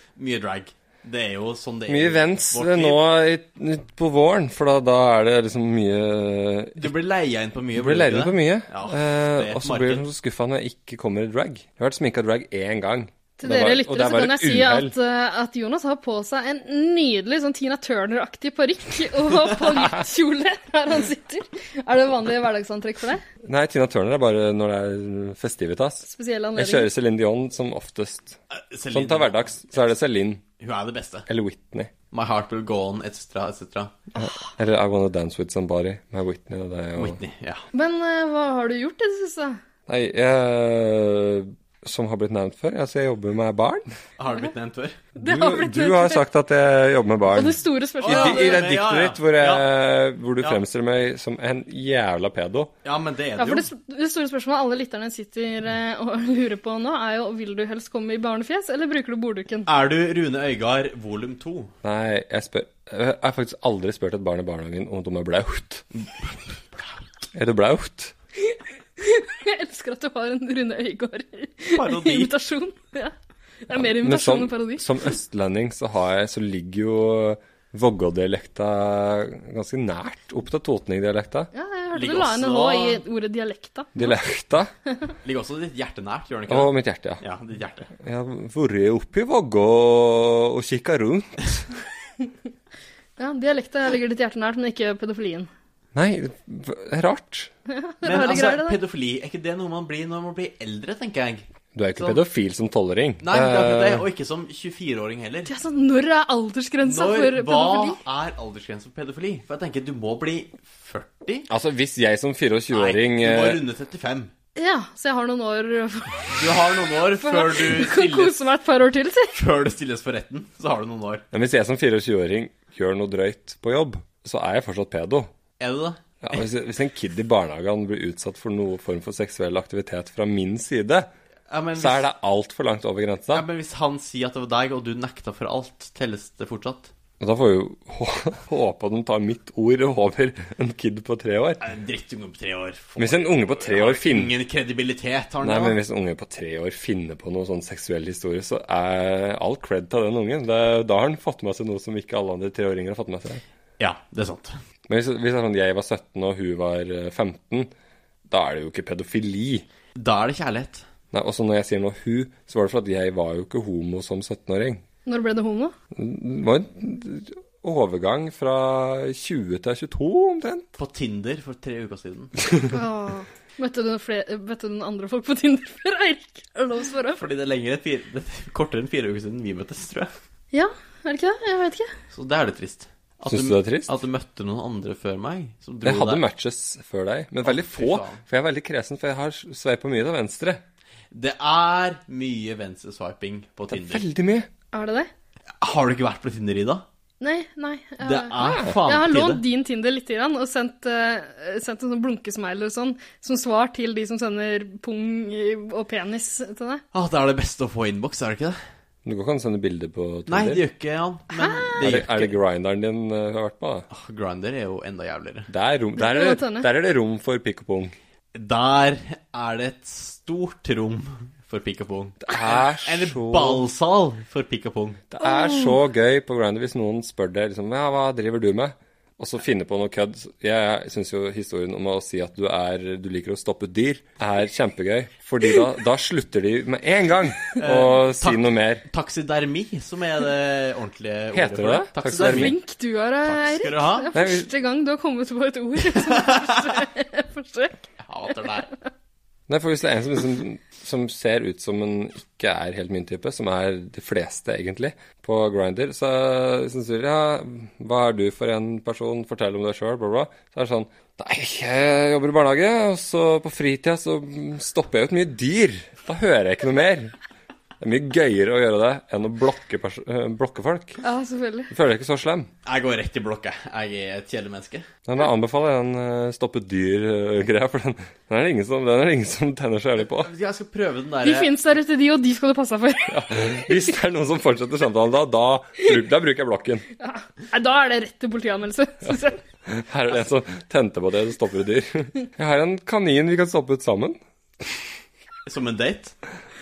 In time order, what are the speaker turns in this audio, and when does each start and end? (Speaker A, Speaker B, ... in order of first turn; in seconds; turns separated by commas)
Speaker A: 0.2-3.0, Speaker B: 1.9-6.9, Speaker A: 6.8-10.1, Speaker B: 7.8-14.9, Speaker C: 13.4-23.2, Speaker B: 23.4-28.4, Speaker C: 26.0-26.9, Speaker A: 28.5-29.9, Speaker B: 28.9-30.4, Speaker A: 30.6-31.2, Speaker B: 31.3-31.9, Speaker A: 32.1-33.9, Speaker B: 34.1-37.2, Speaker A: 37.0-37.6, Speaker C: 37.7-39.6, Speaker B: 39.9-43.9, Speaker A: 44.2-45.0, Speaker C: 45.1-46.2, Speaker B: 45.2-52.7, Speaker C: 47.3-48.7, Speaker A: 48.0-49.7, Speaker A: 52.8-53.7, Speaker C: 53.4-59.7, Speaker A: 59.6-61.7, Speaker B: 61.8-65.8, Speaker B: 67.3-68.1, Speaker C: 68.5-73.1, Speaker A: 71.8-72.3, Speaker C: 73.6-75.0, Speaker B: 73.7-81.5, Speaker C: 81.5-84.1, Speaker A: 81.9-83.0, Speaker B: 84.0-84.7, Speaker C: 84.9-85.1, Speaker A: 85.2-87.9, Speaker B: 86.5-87.2, Speaker B: 88.0-91.7, Speaker C: 93.2-95.5, Speaker B: 95.9-97.5, Speaker C: 97.7-98.8, Speaker A: 98.0-101.4, Speaker B: 101.7-104.0, Speaker A: 102.0-102.2, Speaker A: 103.2-105.5, Speaker C: 105.5-108.0, Speaker A: 106.8-111.5, Speaker B: 111.5-113.6, Speaker A: 112.7-114.3, Speaker C: 114.5-119.3, Speaker A: 116.3-118.3, Speaker A: 119.3-121.2, Speaker B: 121.3-125.3, Speaker A: 125.6-126.4, Speaker B: 126.2-131.1, Speaker A: 131.5-132.1, Speaker B: 131.7-133.4, Speaker A: 133.3-136.9, Speaker B: 137.2-141.7, Speaker A: 141.6-145.8, Speaker B: 143.0-144.3, Speaker B: 145.4-153.4, Speaker A: 153.8-154.6, Speaker B: 154.9-157.7, Speaker B: 158.3-159.7, Speaker A: 159.9-160.8, Speaker B: 161.1-164.8, Speaker C: 165.1-165.7, Speaker B: 165.9-170.7, Speaker A: 170.8-172.4, Speaker C: 172.7-177.3, Speaker A: 177.2-180.1, Speaker C: 180.5-181.9, Speaker A: 182.1-186.2, Speaker B: 183.3-183.9, Speaker B: 185.8-190.6, Speaker A: 187.4-188.2, Speaker A: 191.1-194.0, Speaker B: 193.7-194.5, Speaker C: 194.7-195.1, Speaker A: 195.6-196.8, Speaker C: 197.2-206.8, Speaker A: 198.0-199.4, Speaker B: 198.4-198.7, Speaker A: 206.9-208.6, Speaker B: 209.0-210.6, Speaker A: 210.3-212.3, Speaker C: 211.3-211.7, Speaker B: 211.8-213.9, Speaker A: 213.9-215.5, Speaker B: 215.5-217.9, Speaker C: 216.0-216.7, Speaker A: 218.3-225.0, Speaker B: 222.3-223.7, Speaker B: 225.1-238.8, Speaker C: 225.2-225.8, Speaker A: 237.6-242.6, Speaker B: 241.3-242.5, Speaker C: 242.1-247.8, Speaker A: 243.2-244.1, Speaker B: 244.1-244.5, Speaker A: 246.0-246.5, Speaker A: 248.0-248.7, Speaker B: 249.5-267.1, Speaker B: 267.8-271.0, Speaker C: 271.0-271.7, Speaker B: 271.7-272.5, Speaker A: 272.6-274.9, Speaker B: 275.1-280.3, Speaker A: 280.2-281.5, Speaker C: 281.2-283.8, Speaker B: 283.1-286.9, Speaker C: 287.0-289.4, Speaker B: 289.6-294.2, Speaker A: 295.5-296.1